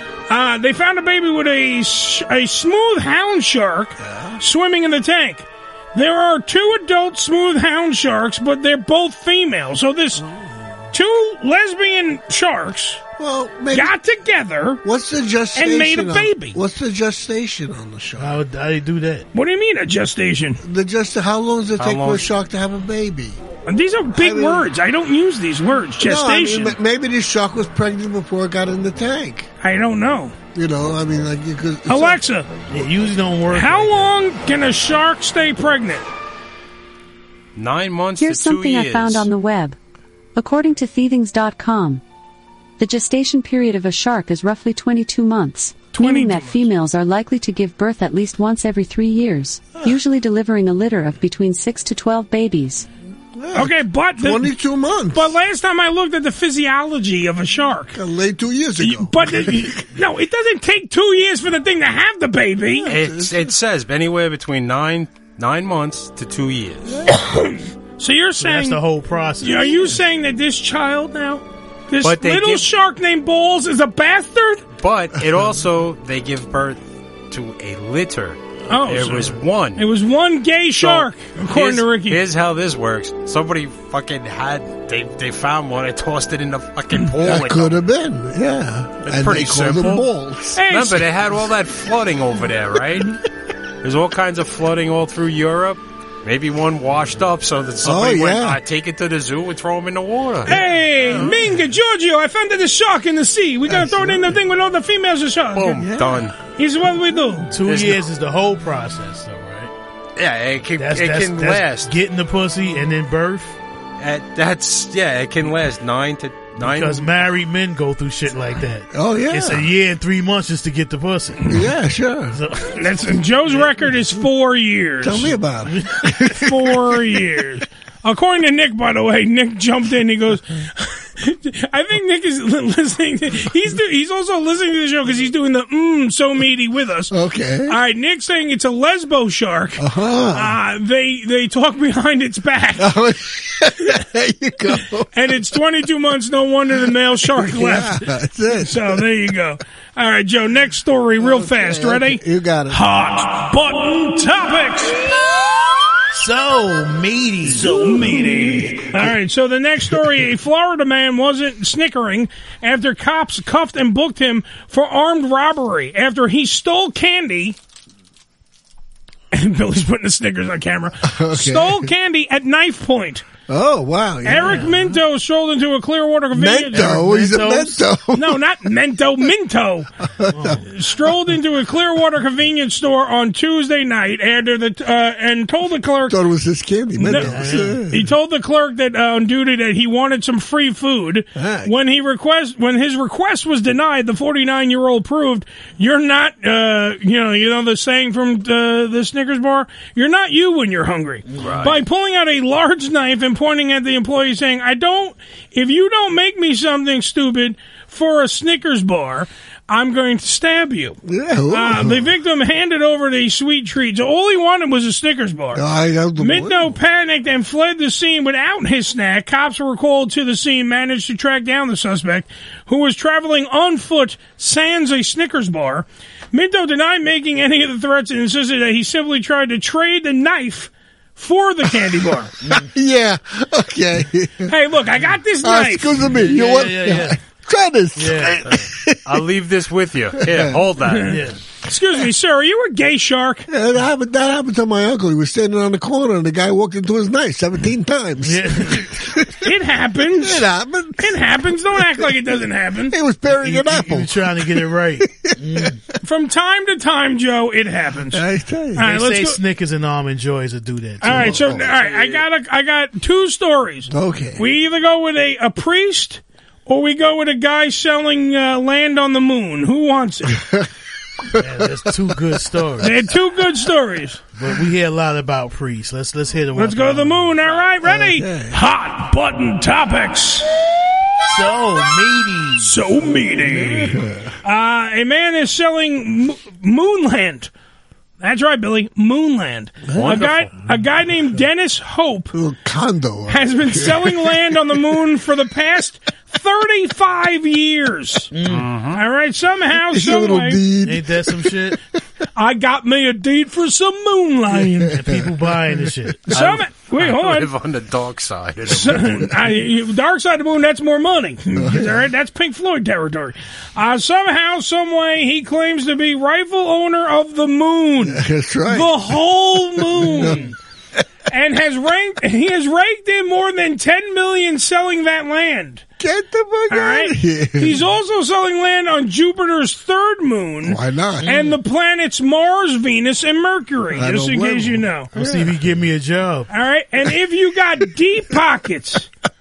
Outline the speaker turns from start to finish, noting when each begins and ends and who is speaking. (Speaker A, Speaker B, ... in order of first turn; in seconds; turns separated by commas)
Speaker A: 0.3-10.2, Speaker B: 4.0-4.4, Speaker B: 10.1-10.8, Speaker A: 10.9-13.0, Speaker B: 13.2-13.9, Speaker A: 13.7-14.8, Speaker B: 14.8-18.4, Speaker A: 15.6-16.6, Speaker C: 18.2-19.2, Speaker A: 19.3-20.6, Speaker B: 20.6-23.4, Speaker D: 21.8-22.2, Speaker A: 23.7-26.8, Speaker B: 24.1-24.7, Speaker B: 26.0-29.5, Speaker A: 29.6-30.3, Speaker B: 30.5-32.2, Speaker A: 31.9-32.5, Speaker C: 32.7-34.1, Speaker A: 33.5-36.0, Speaker D: 37.5-39.3, Speaker E: 38.2-39.8, Speaker E: 40.4-42.0, Speaker E: 42.8-52.9, Speaker A: 46.0-46.6, Speaker B: 53.4-55.3, Speaker A: 53.5-54.5, Speaker A: 55.1-58.0, Speaker B: 57.9-59.8, Speaker A: 58.8-62.9, Speaker B: 62.7-63.5, Speaker D: 62.9-67.0, Speaker A: 67.1-68.8, Speaker C: 68.4-70.0, Speaker A: 69.4-74.6, Speaker D: 72.0-72.7, Speaker D: 74.8-79.8, Speaker A: 78.7-82.2, Speaker D: 80.8-87.8, Speaker B: 87.2-90.6, Speaker D: 89.0-90.1, Speaker A: 90.5-91.0, Speaker D: 90.7-93.1, Speaker D: 93.8-100.5, Speaker B: 97.8-98.6, Speaker A: 100.5-105.8, Speaker B: 103.7-104.3, Speaker D: 105.5-106.3, Speaker B: 105.8-106.2, Speaker A: 106.6-107.5, Speaker C: 107.5-109.7, Speaker D: 107.7-108.0, Speaker D: 110.2-111.9, Speaker C: 110.8-113.6, Speaker D: 114.0-117.1, Speaker C: 116.6-121.6, Speaker B: 118.9-119.7, Speaker B: 121.5-122.4, Speaker C: 122.3-123.0, Speaker A: 122.8-125.3, Speaker B: 125.0-126.7, Speaker C: 125.7-126.0, Speaker A: 126.4-137.1, Speaker B: 137.1-137.8, Speaker A: 137.7-142.9, Speaker B: 139.8-140.5, Speaker B: 142.8-145.1, Speaker A: 145.1-148.0, Speaker B: 147.2-149.0, Speaker A: 148.6-155.0, Speaker B: 151.2-152.8, Speaker C: 156.1-158.7, Speaker A: 157.6-167.6, Speaker A: 169.3-173.2, Speaker B: 171.0-171.9, Speaker B: 173.5-174.7, Speaker A: 174.2-177.0, Speaker C: 174.4-174.8, Speaker B: 176.3-178.4, Speaker C: 176.7-177.8, Speaker A: 178.1-179.9, Speaker B: 180.2-180.6, Speaker C: 180.3-180.6, Speaker A: 180.7-186.2, Speaker B: 186.1-188.0, Speaker A: 187.0-211.0, Speaker C: 187.1-187.8, Speaker B: 191.3-191.7, Speaker D: 201.4-201.7, Speaker B: 211.0-212.1, Speaker A: 211.5-215.6, Speaker B: 215.5-216.7, Speaker A: 216.2-232.3, Speaker B: 232.5-234.5, Speaker A: 234.5-236.0, Speaker B: 235.4-239.2, Speaker C: 236.2-237.2, Speaker C: 238.0-238.4, Speaker D: 238.5-241.2, Speaker B: 240.2-240.6, Speaker A: 240.9-241.1, Speaker C: 241.0-241.4, Speaker A: 241.7-243.5, Speaker B: 243.5-249.4, Speaker C: 248.2-248.8, Speaker A: 249.4-250.4, Speaker B: 250.2-251.2, Speaker A: 251.0-252.9, Speaker B: 251.7-252.2, Speaker B: 252.9-255.7, Speaker C: 253.3-255.8, Speaker A: 256.0-258.2, Speaker B: 258.1-258.9, Speaker A: 258.8-259.4, Speaker C: 258.8-261.7, Speaker A: 261.0-270.4, Speaker B: 261.0-261.7, Speaker B: 263.9-264.4, Speaker B: 270.3-270.7, Speaker C: 271.4-273.1, Speaker A: 272.8-274.2, Speaker C: 274.3-277.4, Speaker A: 276.5-280.4, Speaker B: 277.8-278.6, Speaker C: 281.2-282.8, Speaker A: 282.6-287.5, Speaker B: 283.5-284.3, Speaker A: 288.2-292.3, Speaker B: 289.9-290.2, Speaker D: 289.9-290.5, Speaker B: 292.3-294.4, Speaker A: 293.3-298.3, Speaker C: 298.3-298.7, Speaker D: 298.4-299.0, Speaker A: 298.9-300.6, Speaker B: 299.8-301.7, Speaker C: 300.8-301.8, Speaker A: 302.4-305.0, Speaker C: 304.9-306.4, Speaker B: 304.9-305.3, Speaker A: 306.3-307.5, Speaker D: 306.3-309.3, Speaker A: 308.7-320.5, Speaker B: 311.6-311.9, Speaker B: 318.0-319.0, Speaker B: 319.8-320.5, Speaker A: 321.3-325.8, Speaker B: 326.0-327.8, Speaker A: 326.7-335.3, Speaker B: 330.6-331.3, Speaker C: 331.2-331.6, Speaker B: 333.9-334.9, Speaker C: 335.1-336.5, Speaker A: 336.5-339.1